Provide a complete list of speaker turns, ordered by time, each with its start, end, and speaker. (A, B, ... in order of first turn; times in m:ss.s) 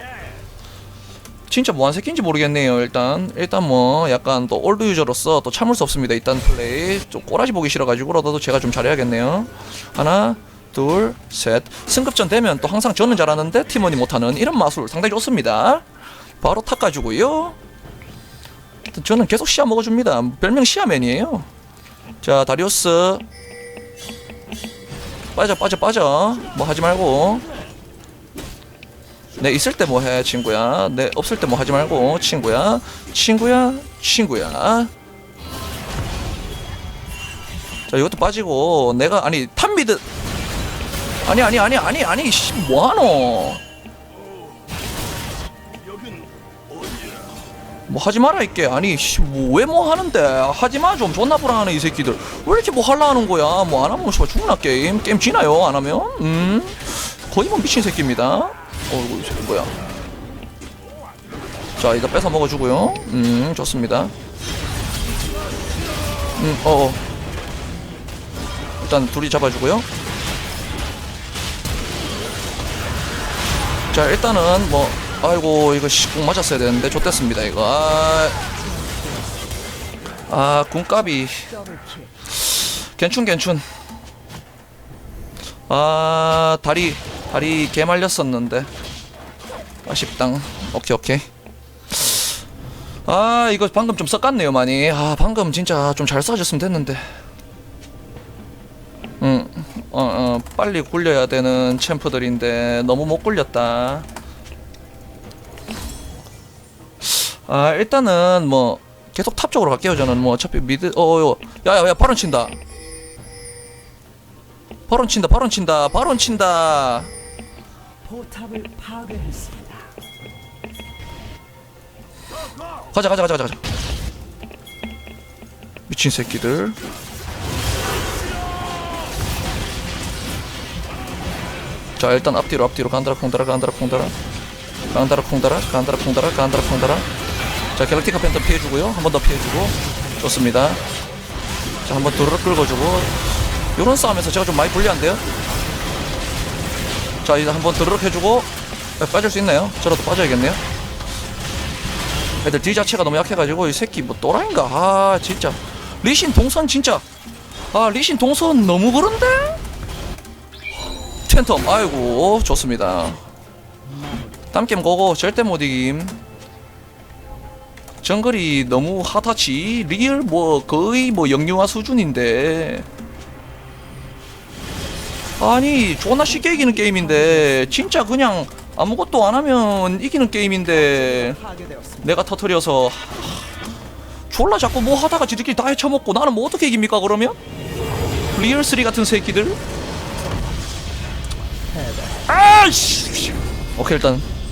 0:01.5-0:15.8 A
0:16.4-0:17.6 A
0:18.9-0:21.5 A
0:22.2-0:23.2 A
0:25.3-0:27.4 A
0:29.4-0:34.9 A
0:37.9-0:40.0 A
0:41.2-0:43.6 A
0:47.9-0:59.7 A
1:01.8-1:04.1 A
1:06.4-1:07.0 A
1:08.8-1:09.9 A
1:13.9-1:18.4 A
1:18.4-1:19.6 B
1:20.3-1:21.5 A
1:21.4-1:22.1 B
1:22.5-1:23.6 A
1:25.7-1:28.7 A
1:29.8-1:31.3 A
1:31.9-1:32.2 A
1:33.1-1:37.0 A
1:39.2-1:44.1 A
1:47.0-1:52.5 A
1:54.9-1:57.1 A
1:58.0-1:59.9 B
2:02.9-2:03.6 A
2:05.9-2:06.8 A
2:12.0-2:14.1 A
2:14.9-2:17.1 A
2:17.7-2:20.8 A
2:21.8-2:25.2 A
2:25.5-2:26.0 B
2:27.2-2:30.6 A
2:32.0-2:34.0 B
2:32.4-2:37.0 A
2:37.7-2:39.6 A
2:41.2-2:43.2 A
2:43.8-2:44.5 B
2:44.5-2:46.2 A
2:48.0-2:52.8 A
2:55.4-3:01.4 A
2:56.2-2:58.1 B
3:00.7-3:02.2 B
3:02.0-3:03.5 A
3:04.3-3:07.4 A
3:08.3-3:09.6 A
3:11.7-3:12.3 B
3:12.3-3:14.3 A